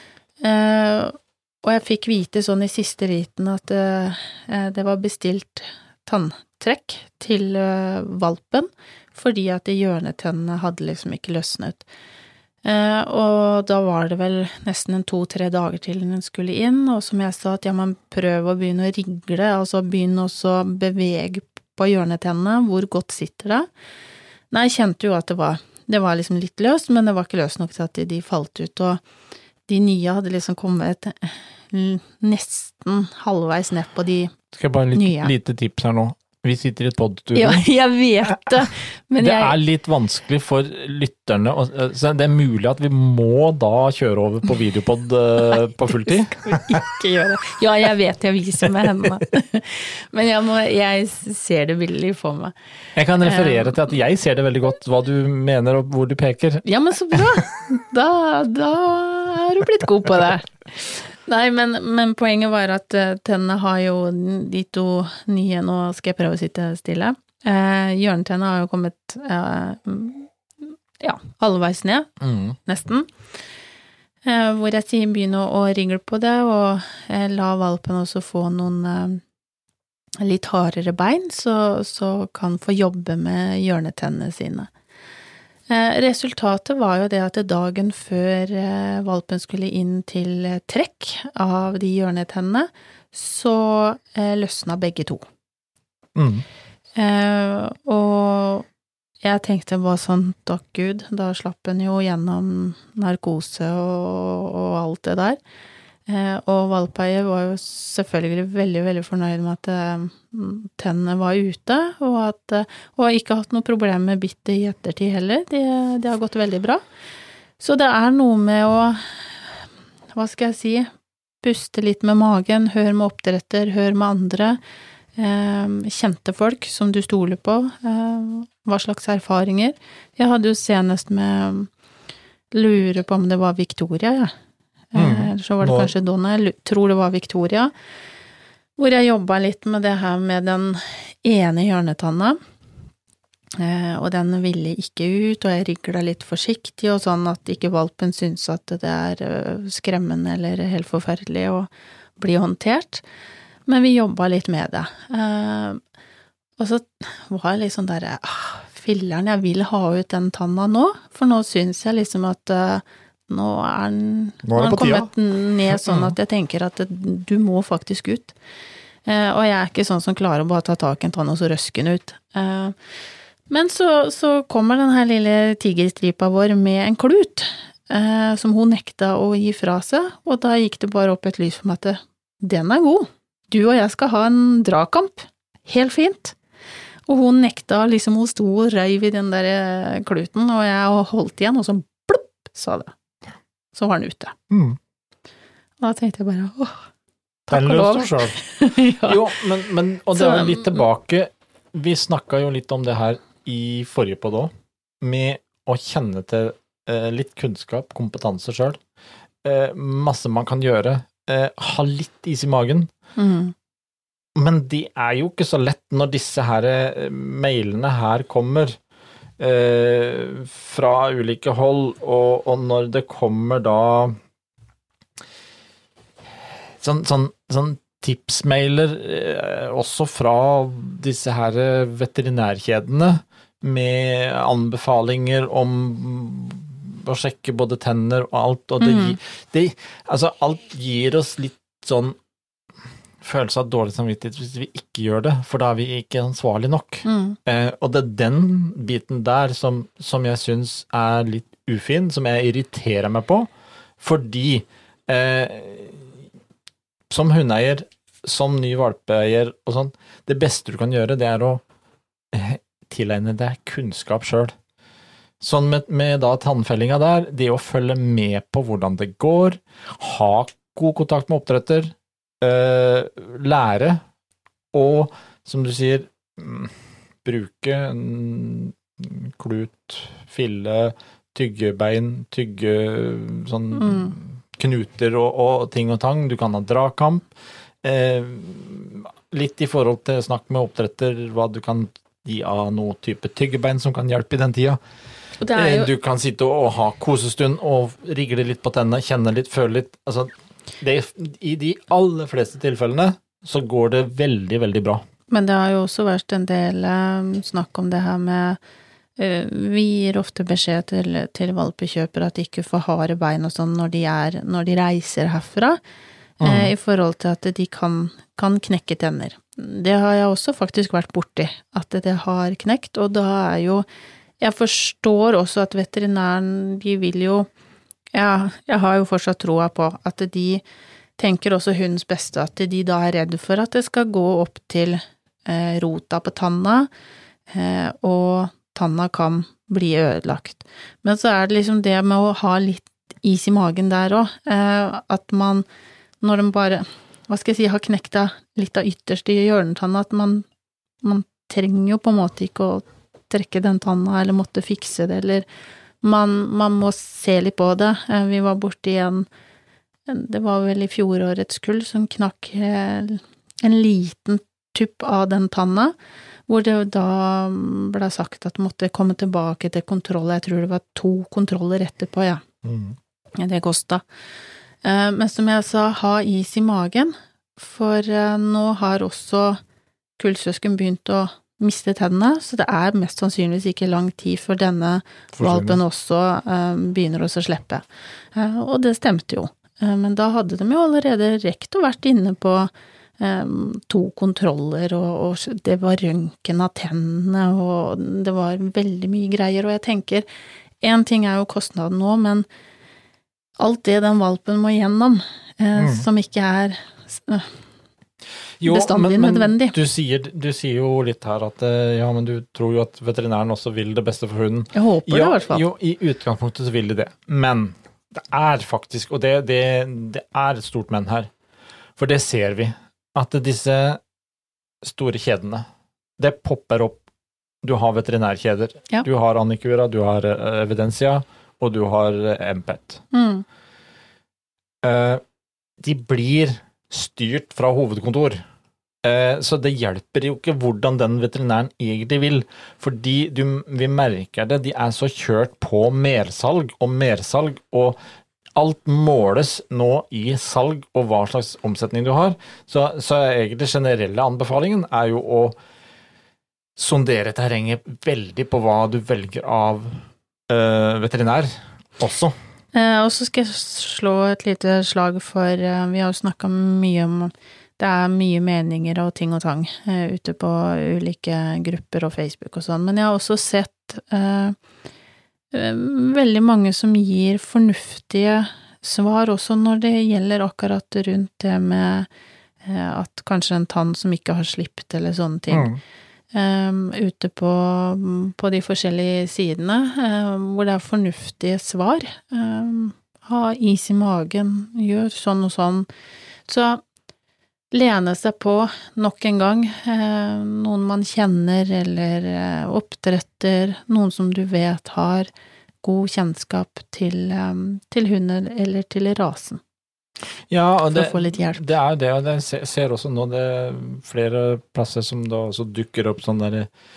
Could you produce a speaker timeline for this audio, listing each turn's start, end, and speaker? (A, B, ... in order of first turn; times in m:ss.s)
0:00.4-0:11.9 A
0:12.6-0:23.7 A
0:24.5-0:29.0 A
0:29.7-0:34.3 A
0:34.5-0:37.6 B
0:34.9-0:35.3 A
0:37.3-0:39.6 A
0:39.2-0:46.8 B
0:46.4-0:52.5 A
0:52.9-0:57.3 B
0:53.2-0:53.8 A
0:56.6-1:12.1 A
1:12.2-1:12.6 B
1:12.6-1:13.1 A
1:14.2-1:19.2 A
1:20.2-1:24.7 A
1:25.7-1:35.2 A
1:36.2-1:36.4 B
1:37.0-1:38.6 A
1:39.2-1:45.4 A
1:46.1-1:56.8 A
1:57.6-1:59.5 A
2:00.1-2:00.9 A
2:01.4-2:04.6 A
2:05.2-2:11.7 A
2:12.5-2:14.3 A
2:14.9-2:17.7 A
2:15.0-2:15.9 B
2:18.8-2:22.4 A
2:23.6-2:33.0 A
2:33.6-2:35.8 A
2:36.6-2:48.3 A
2:44.4-2:45.1 B
2:45.7-2:46.1 B
2:49.0-2:52.7 A
2:53.5-3:06.4 A
3:07.1-3:12.9 A
3:13.7-3:14.4 A
3:14.5-3:14.8 B
3:15.8-3:16.8 A
3:17.5-3:19.4 A
3:17.5-3:18.4 B
3:18.9-3:28.8 B
3:20.1-3:20.8 A
3:29.4-3:32.9 B
3:33.2-3:33.5 A
3:34.4-3:38.8 B
3:39.4-3:44.2 B
3:46.8-4:02.2 B
3:58.8-3:59.2 A
4:03.2-4:13.5 B
4:07.0-4:07.4 A
4:14.0-4:16.2 B
4:17.1-4:21.6 B
4:22.3-4:24.5 B
4:25.4-4:34.0 B
4:34.7-4:47.2 B
4:43.7-4:44.1 A
4:47.8-4:54.8 B
4:55.4-4:55.9 A
4:55.5-5:05.0 B
5:05.3-5:08.6 A
5:09.2-5:15.8 A
5:16.4-5:23.8 A
5:16.4-5:16.7 B
5:24.4-5:27.5 A
5:28.1-5:30.6 A
5:31.2-5:36.9 A
5:37.5-5:45.6 A
5:46.2-5:50.4 A
5:51.0-5:55.4 A
5:56.0-5:59.3 A
6:00.1-6:05.9 A
6:06.5-6:12.4 A
6:12.6-6:13.0 B
6:13.4-6:14.0 A
6:14.8-6:19.6 A
6:20.2-6:27.8 A
6:25.3-6:25.8 B
6:28.3-6:40.3 A
6:40.8-6:42.4 A
6:43.6-6:47.5 A
6:45.8-6:46.0 B
6:48.6-7:01.3 B
6:48.6-6:49.8 A
6:54.7-6:55.6 A
7:02.0-7:04.0 B
7:04.8-7:05.6 B
7:06.2-7:07.0 B
7:07.6-7:13.0 B
7:13.1-7:13.4 A
7:14.8-7:15.2 B
7:15.8-7:18.4 B
7:19.0-7:28.0 B
7:28.5-7:35.6 B
7:36.8-7:39.9 B
7:40.5-7:42.3 B
7:42.7-7:54.6 A
7:55.5-8:02.1 A
8:02.6-8:05.7 A
8:05.5-8:05.8 B
8:06.3-8:15.9 A
8:16.5-8:16.8 A
8:17.7-8:25.3 A
8:25.8-8:29.6 A
8:30.5-8:36.7 B
8:30.9-8:31.6 A